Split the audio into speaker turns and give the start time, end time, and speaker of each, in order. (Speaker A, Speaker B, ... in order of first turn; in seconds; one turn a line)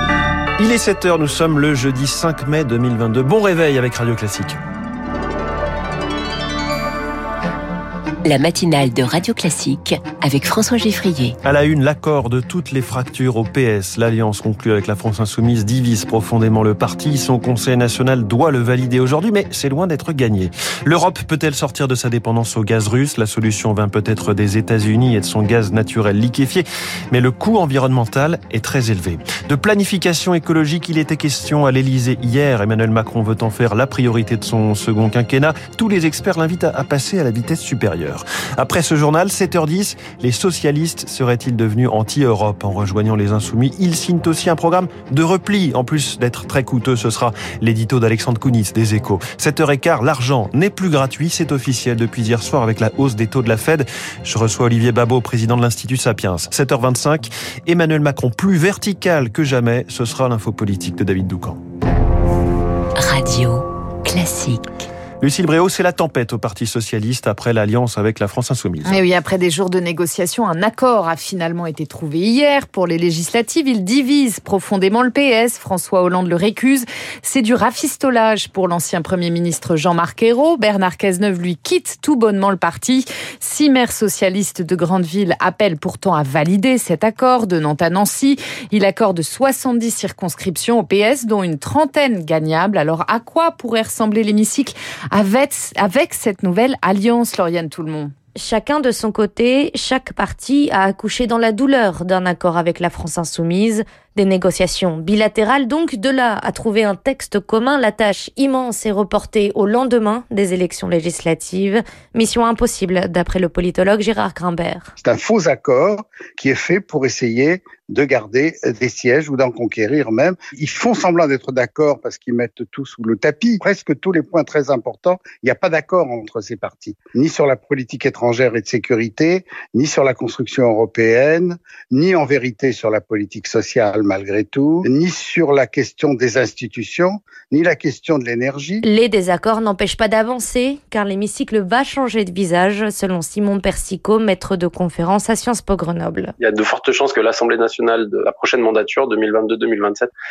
Speaker A: 0.6-4.6
Speaker B: 8.2-11.4
Speaker A: 11.4-61.6
Speaker B: 63.0-64.7
Speaker A: 65.2-69.0
Speaker C: 68.8-98.1
Speaker D: 98.4-114.9
Speaker E: 115.0-138.8
Speaker D: 138.8-146.3
Speaker F: 146.4-150.1